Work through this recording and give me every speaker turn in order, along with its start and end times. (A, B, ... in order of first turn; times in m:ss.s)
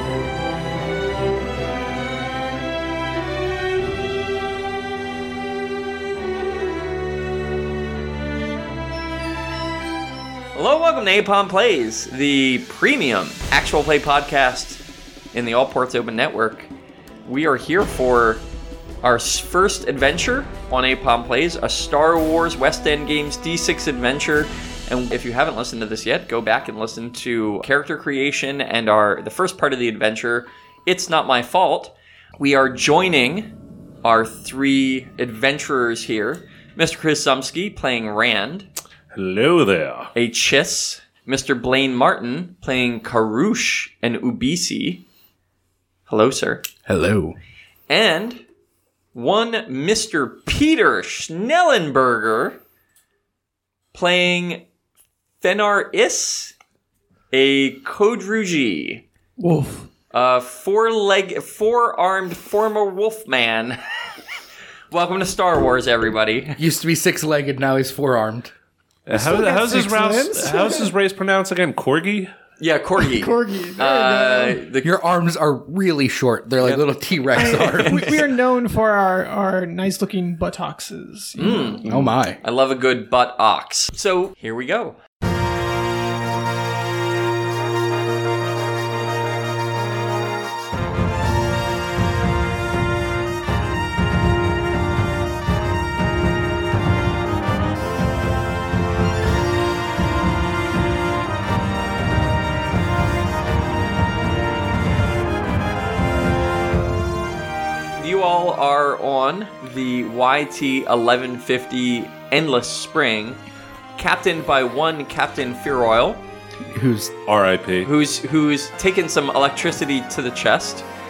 0:10.6-0:14.8 A
0:15.3-0:16.7 A
0:17.3-0:18.4 A
0:19.0-0:38.7 A
0:39.1-0:40.1 B
0:40.2-0:45.0 A
0:46.1-0:46.6 A
0:46.9-0:47.4 C
0:47.9-0:48.4 A
0:49.1-0:52.6 A
0:53.9-0:54.7 A
0:55.4-0:56.5 A
0:57.3-0:59.0 A
0:59.4-0:59.9 D
1:00.1-1:03.8 A
1:04.9-1:06.6 A
1:06.6-1:08.5 C
1:09.1-1:12.3 B
1:09.1-1:10.9 D
1:12.6-1:14.9 A
1:13.0-1:14.6 D
1:14.8-1:18.2 C
1:16.6-1:18.2 A
1:17.4-1:21.8 D
1:21.4-1:21.9 A
1:21.8-1:22.4 C
1:22.4-1:25.0 A
1:48.0-1:53.4 A
1:54.0-1:56.2 A
1:56.7-1:57.1 C
1:57.3-1:57.9 B
1:57.8-2:00.9 A